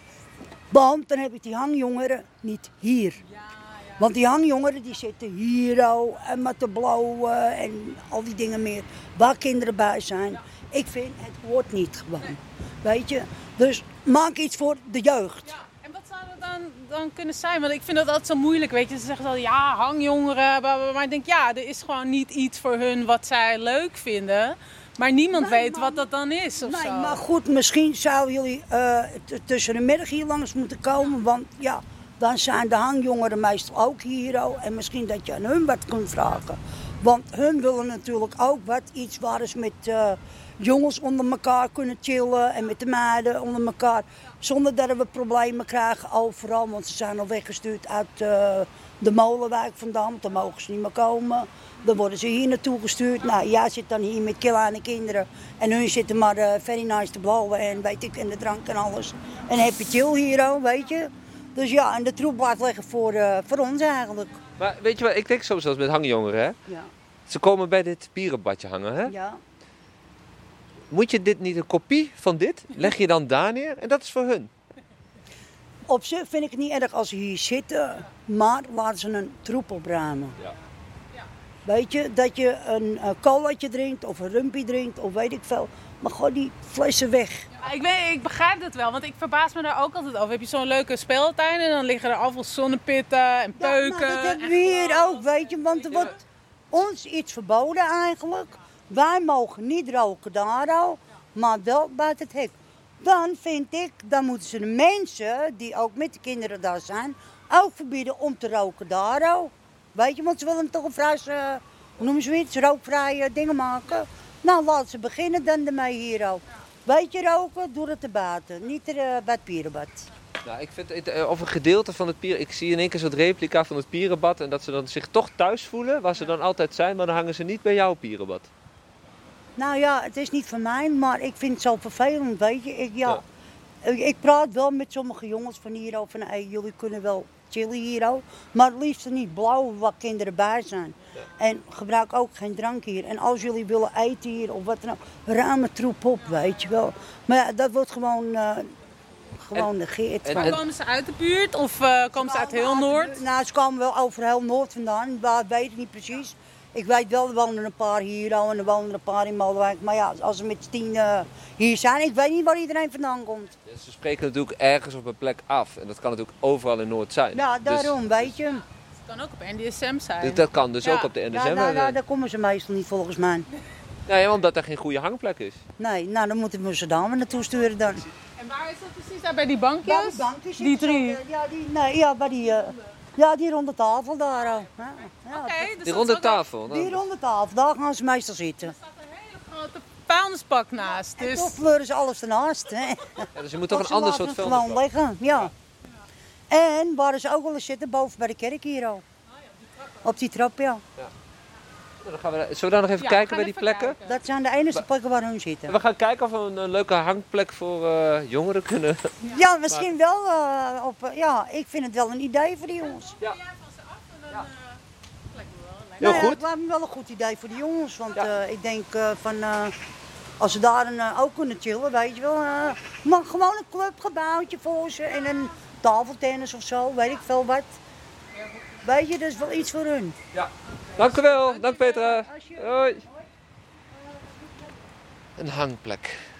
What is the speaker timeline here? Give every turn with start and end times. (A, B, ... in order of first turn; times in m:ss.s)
0:00.7-0:03.2 A
0:03.3-0:04.0 B
0:04.0-0:15.5 A
0:15.4-0:27.2 B
0:25.3-0:26.0 A
0:26.6-1:04.4 A
1:04.6-1:06.6 C
1:07.3-1:09.1 C
1:09.1-1:09.4 A
1:10.9-1:14.5 C
1:15.9-1:20.4 A
1:21.6-1:27.5 A
1:27.6-1:36.1 B
1:33.6-1:36.2 A
1:36.7-2:00.1 A
2:00.4-2:08.5 C
2:09.6-2:13.2 A
2:13.8-2:28.7 A
2:29.4-2:30.6 A
2:30.2-2:30.6 C
2:30.4-2:33.2 B
2:32.2-2:43.6 A
2:43.6-2:48.3 C
2:47.3-2:48.6 A
2:49.0-2:51.1 B
2:50.2-2:52.0 C
2:51.3-2:53.5 A
2:54.1-2:55.6 C
2:55.8-2:58.0 A
2:58.4-3:01.2 B
2:59.8-3:05.8 A
3:05.3-3:06.4 B
3:05.8-3:07.0 C
3:06.7-3:08.7 A
3:08.6-3:11.6 B
3:11.2-3:15.5 A
3:13.3-3:14.8 C
3:16.5-3:19.0 A
3:20.0-3:20.8 A
3:22.0-3:24.0 C
3:23.0-3:24.2 B
3:24.0-3:25.8 A
3:25.7-3:29.1 C
3:29.3-3:33.1 A
3:32.8-3:36.3 B
3:36.0-3:36.4 C
3:36.0-3:39.7 A
3:40.4-3:47.8 A
3:48.8-3:50.2 A
3:50.3-3:53.0 C
3:50.9-3:51.9 B
3:52.3-3:53.0 A
3:55.4-3:56.2 C